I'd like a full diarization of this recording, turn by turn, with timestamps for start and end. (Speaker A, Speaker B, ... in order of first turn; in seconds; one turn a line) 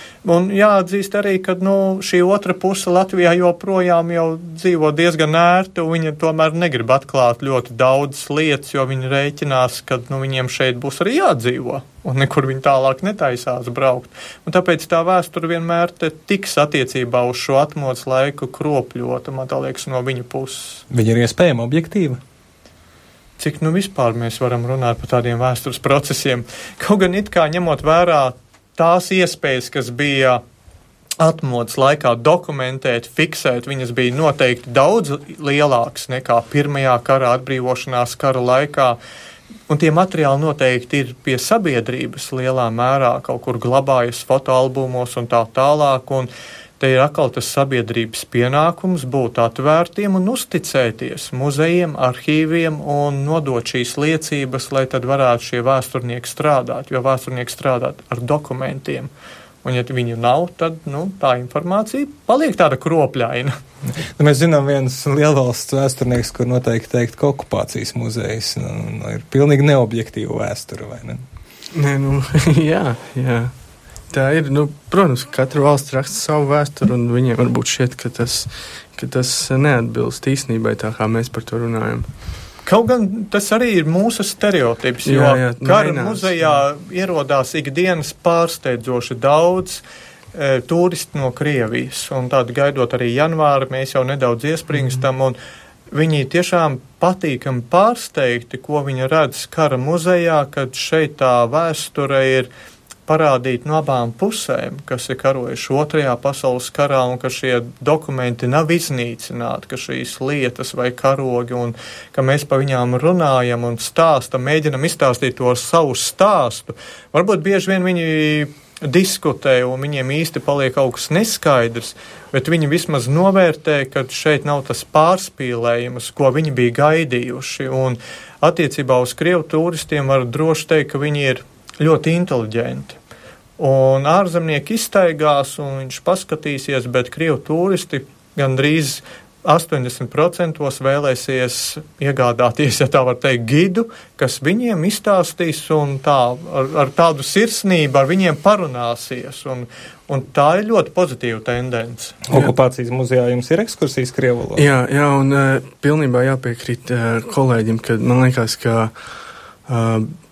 Speaker A: 0.2-20.8
Speaker B: 20.9-22.2
Speaker A: 23.4-30.4
Speaker A: 31.2-39.0
Speaker A: 39.7-59.1
Speaker A: 59.6-63.5
Speaker B: 64.0-71.2
Speaker C: 71.7-73.5
Speaker C: 74.1-82.1
Speaker A: 82.7-89.8
Speaker C: 85.0-86.4
Speaker A: 90.3-95.4
Speaker A: 95.9-102.5
Speaker A: 103.1-133.0
Speaker A: 133.6-152.2
Speaker B: 152.3-154.7
Speaker C: 154.6-158.9
Speaker C: 159.7-160.1